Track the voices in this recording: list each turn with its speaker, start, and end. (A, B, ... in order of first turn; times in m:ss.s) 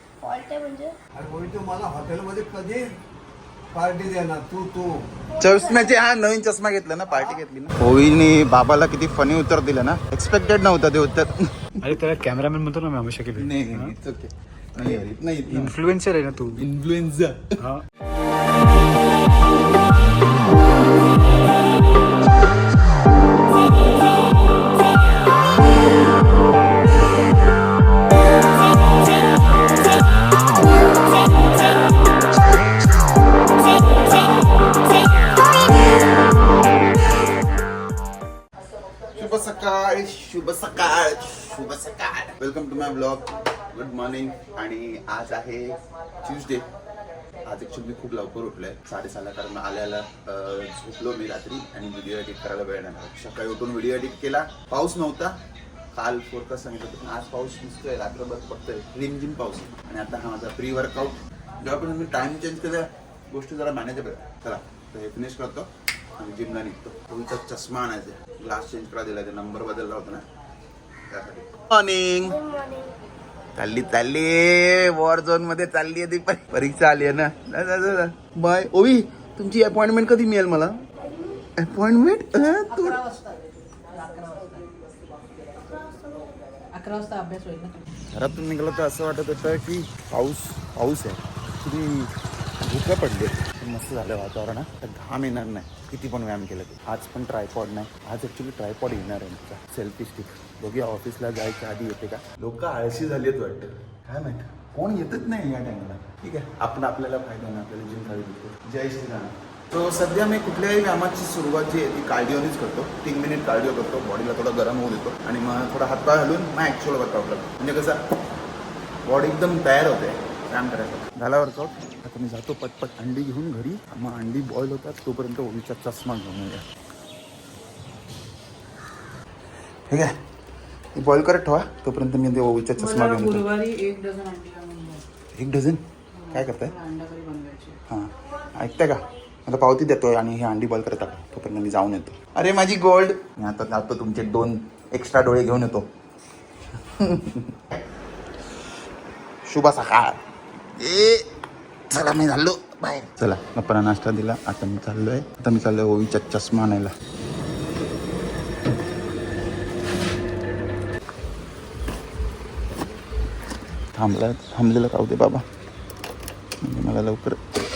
0:00.2-0:00.9 A
0:01.2-0:02.8 B
0:03.7-0:05.1 B
0:05.3-0:06.0 A
0:05.4-0:11.7 C
0:07.1-0:07.4 B
0:11.8-0:14.0 D
0:13.4-0:15.8 C
0:15.5-0:16.6 D
0:16.6-0:17.6 C
0:39.1-0:46.7 C
0:47.4-0:55.4 C
0:55.9-1:10.2 C
1:11.1-1:12.4 C
1:12.2-1:12.9 A
1:13.6-1:20.8 C
1:21.0-1:21.4 A
1:21.6-1:23.0 C
1:22.7-1:23.4 E
1:23.9-1:24.7 E
1:25.6-1:26.3 A
1:26.7-1:27.8 E
1:28.1-1:58.0 C
1:59.1-2:06.6 C
2:09.9-2:10.1 C
2:11.0-2:13.5 C
2:12.8-2:15.0 E
2:15.4-2:16.8 C
2:16.2-2:17.8 E
2:17.9-2:25.9 C
2:27.0-2:27.6 C
2:29.5-2:30.2 C
2:30.8-2:31.3 C
2:31.9-2:36.9 C
2:44.0-2:45.4 C
2:46.6-2:47.4 C